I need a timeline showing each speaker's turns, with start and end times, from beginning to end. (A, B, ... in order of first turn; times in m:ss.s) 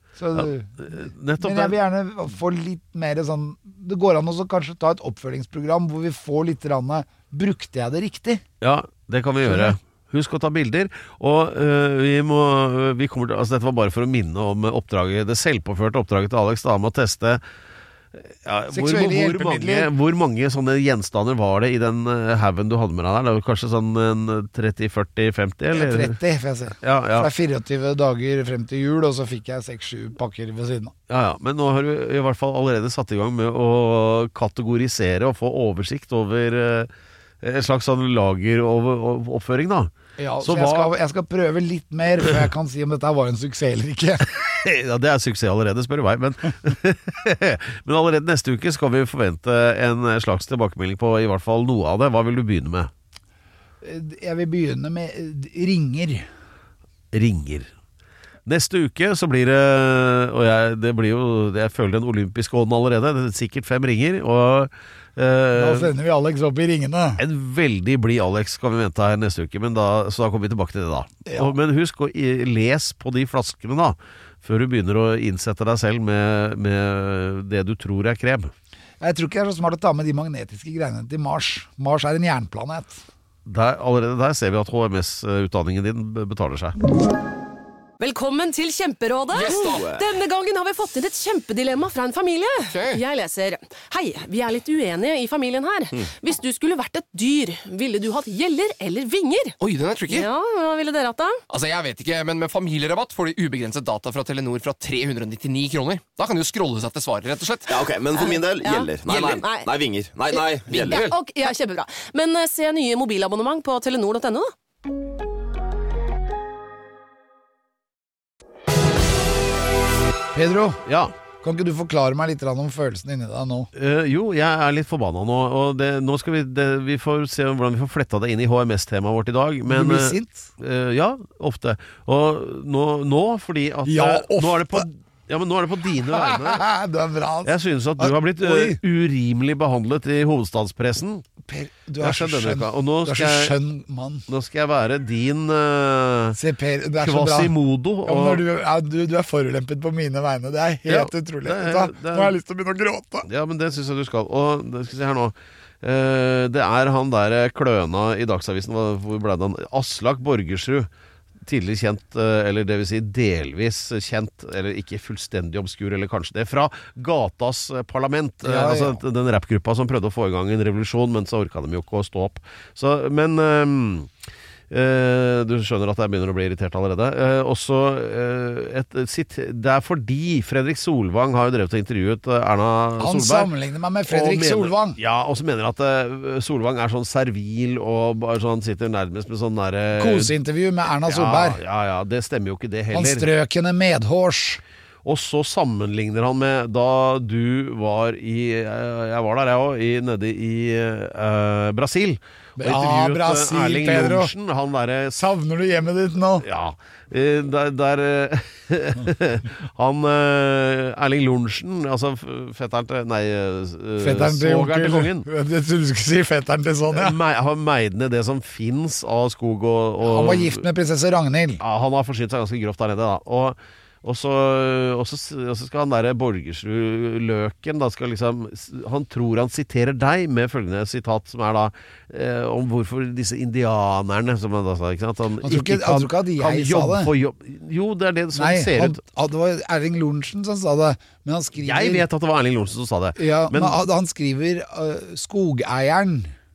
0:00.2-0:08.4 A
0:00.4-0:01.8 B
0:08.6-0:17.4 B
0:09.5-0:09.8 A
0:18.2-0:26.2 B
0:18.7-0:19.9 A
0:25.7-0:30.9 A
0:26.8-0:27.3 B
0:31.1-0:36.9 B
0:37.4-0:40.9 B
0:40.2-0:44.3 A
0:44.3-0:52.9 B
0:53.8-0:56.3 A
0:57.1-0:57.7 B
0:58.5-1:05.9 B
1:05.5-1:07.2 A
1:07.2-1:18.5 B
1:11.3-1:11.6 A
1:19.0-1:23.0 A
1:23.5-1:26.8 B
1:28.0-1:39.6 C
1:29.3-1:29.9 D
1:29.4-1:30.0 E
1:32.7-1:33.0 D
1:39.6-1:40.3 D
1:40.1-1:41.4 C
1:41.5-1:47.7 D
1:47.7-1:51.0 E
1:48.1-1:49.7 C
1:50.3-1:54.5 C
2:00.4-2:00.8 A
2:00.8-2:01.1 B
2:01.4-2:03.7 A
2:03.7-2:16.6 B
2:09.7-2:10.5 A
2:13.8-2:14.9 A
2:16.1-2:18.8 A
2:17.4-2:21.2 B
2:21.4-2:24.3 A
2:22.0-2:23.6 B
2:24.3-2:26.4 B
2:26.4-2:33.3 A
2:27.0-2:28.4 B
2:30.9-2:32.4 B
2:33.3-2:40.9 B
2:41.4-2:54.1 B
2:48.4-2:49.0 A
2:54.7-3:03.5 B
3:03.0-3:05.0 A
3:04.1-3:10.3 B
3:10.0-3:11.6 A
3:11.1-3:13.3 B
3:12.9-3:14.6 A
3:15.0-3:25.2 B
3:22.6-3:24.3 A
3:25.2-3:26.5 A
3:26.4-3:35.3 B
3:34.0-3:37.2 A
3:36.9-3:40.6 B
3:40.0-3:41.6 A
3:41.6-3:59.0 B
3:55.4-3:57.1 A
3:58.3-4:02.0 A
4:01.6-4:03.8 B
4:03.2-4:06.3 A